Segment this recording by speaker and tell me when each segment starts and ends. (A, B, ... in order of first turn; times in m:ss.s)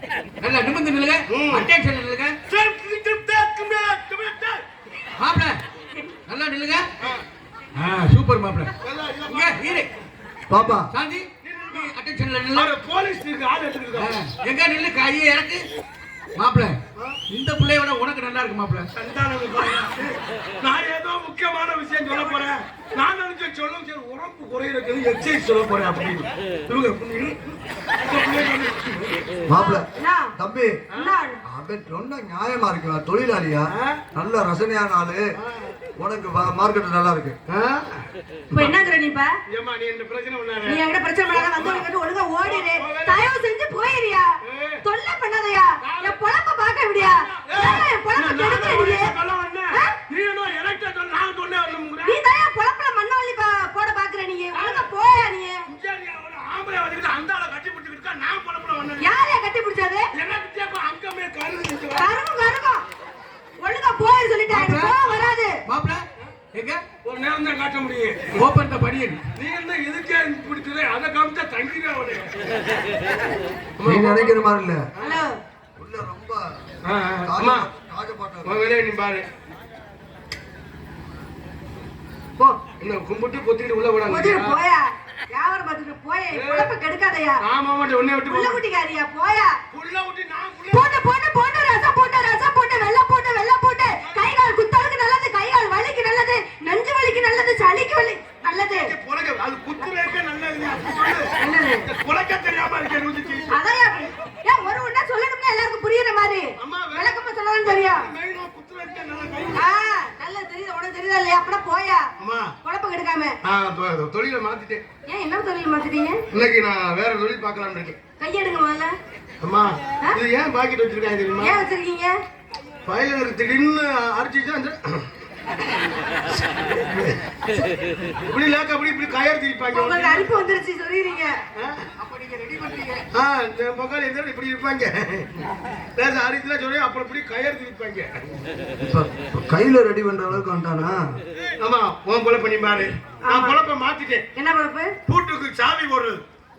0:00.4-0:02.4 A
0:01.3-0:01.7 B
0:02.5-0:04.6 B
0:05.2-0:05.6 A
0:06.3-0:06.9 A
0:07.7-0:08.7 A
0:08.8-0:09.8 B
0:09.3-0:09.9 A
0:10.5-0:10.9 C
0:10.9-0:12.7 A
0:11.4-0:11.9 B
0:12.5-0:14.2 B
0:13.9-0:15.6 A
0:16.4-0:16.8 A
0:17.3-0:18.9 A
0:18.9-0:27.4 B
0:22.1-0:22.4 D
0:28.0-0:29.0 B
0:29.5-0:30.8 C
0:29.5-0:30.3 D
0:30.9-0:31.4 D
0:31.4-0:35.2 C
0:33.7-0:34.0 B
0:35.4-0:35.8 B
0:36.0-0:37.4 C
0:37.5-0:38.7 B
0:38.5-0:39.3 D
0:39.5-0:41.9 B
0:40.6-0:44.3 D
0:42.4-0:43.3 B
0:44.4-0:44.8 B
0:44.8-0:49.1 D
0:45.8-0:46.2 B
0:47.0-0:52.2 B
0:52.0-0:55.6 D
0:54.5-0:54.9 B
0:55.7-0:59.1 B
0:59.0-1:00.1 D
1:00.1-1:02.1 B
1:01.9-1:02.8 D
1:03.6-1:05.6 D
1:04.5-1:05.0 A
1:05.6-1:06.8 A
1:07.0-1:08.4 B
1:08.3-1:09.2 A
1:09.4-1:12.4 B
1:13.8-1:15.2 B
1:13.8-1:14.8 C
1:15.0-1:15.4 D
1:15.8-1:16.4 C
1:16.8-1:17.7 B
1:17.2-1:18.6 C
1:18.4-1:19.2 B
1:22.8-1:24.6 B
1:24.1-1:27.4 D
1:26.3-1:26.7 B
1:27.4-1:28.6 B
1:28.2-1:29.5 D
1:29.7-1:31.0 B
1:30.7-1:38.9 D
1:34.0-1:34.3 B
1:38.6-1:41.3 B
1:41.4-1:41.9 D
1:41.8-1:43.5 B
1:43.5-1:48.1 D
1:46.6-1:49.7 B
1:49.5-1:52.1 D
1:52.2-1:52.5 B
1:52.6-1:53.4 D
1:53.4-1:54.8 B
1:55.1-1:56.2 D
1:56.3-1:58.0 B
1:58.2-1:58.9 D
1:59.4-2:01.6 B
2:01.4-2:02.2 D
2:02.8-2:05.1 B
2:06.8-2:07.1 B
2:08.2-2:10.3 B
2:09.7-2:11.3 D
2:11.6-2:11.8 B
2:13.1-2:18.1 B
2:18.8-2:21.0 C
2:21.6-2:24.2 B
2:23.2-2:23.6 D
2:24.3-2:24.9 D
2:25.0-2:26.2 B